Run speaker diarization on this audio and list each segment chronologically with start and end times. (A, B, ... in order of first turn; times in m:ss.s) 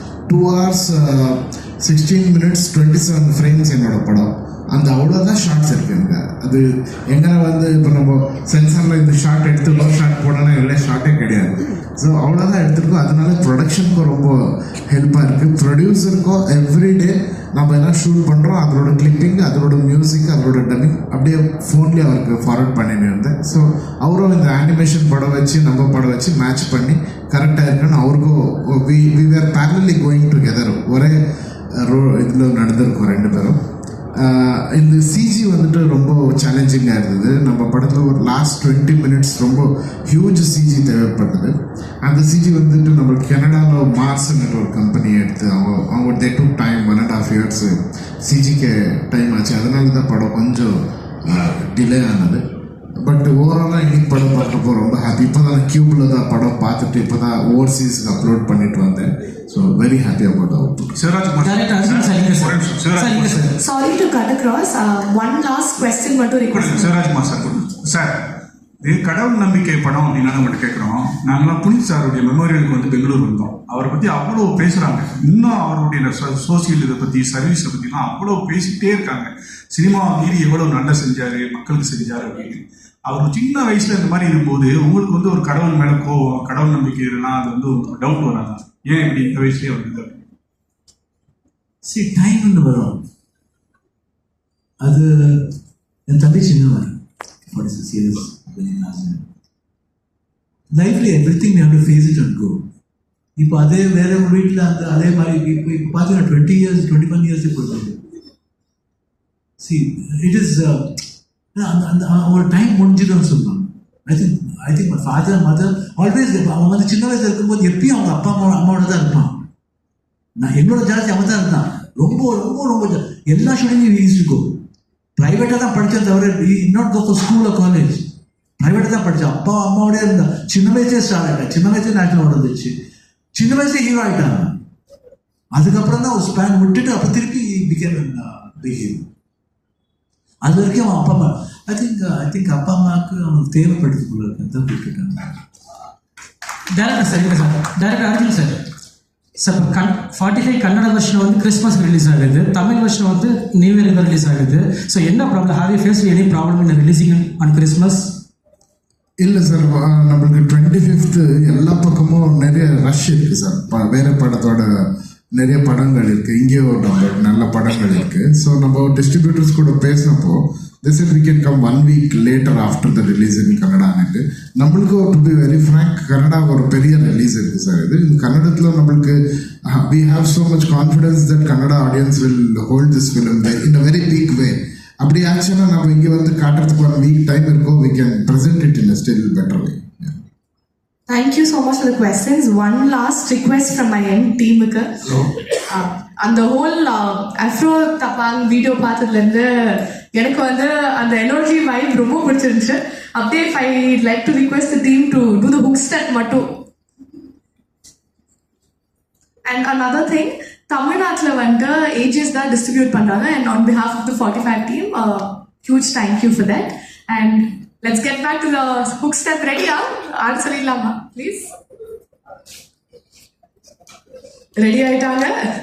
0:00.3-0:31.2 A
0:31.7-0:33.6 A
0:34.2-0:52.4 A
0:53.0-1:01.0 A
1:01.0-1:03.4 B
1:01.4-1:03.6 C
1:03.6-1:06.9 D
1:06.5-1:08.1 B
1:08.8-1:30.1 B
1:31.8-1:33.0 E
1:34.8-1:35.5 E
1:36.1-1:39.3 E
1:40.7-1:42.6 E
1:43.4-1:48.0 E
1:49.6-1:51.0 E
1:51.6-1:59.5 E
2:00.4-2:04.6 E
2:05.2-2:12.8 E
2:13.3-2:14.6 E
2:15.5-2:19.1 E
2:20.4-2:25.4 E
2:26.7-2:28.6 C
2:29.4-2:38.2 C
2:39.2-2:44.7 A
2:45.4-3:10.2 A
3:11.1-3:26.6 D
3:29.5-3:41.5 D
3:44.6-3:45.4 D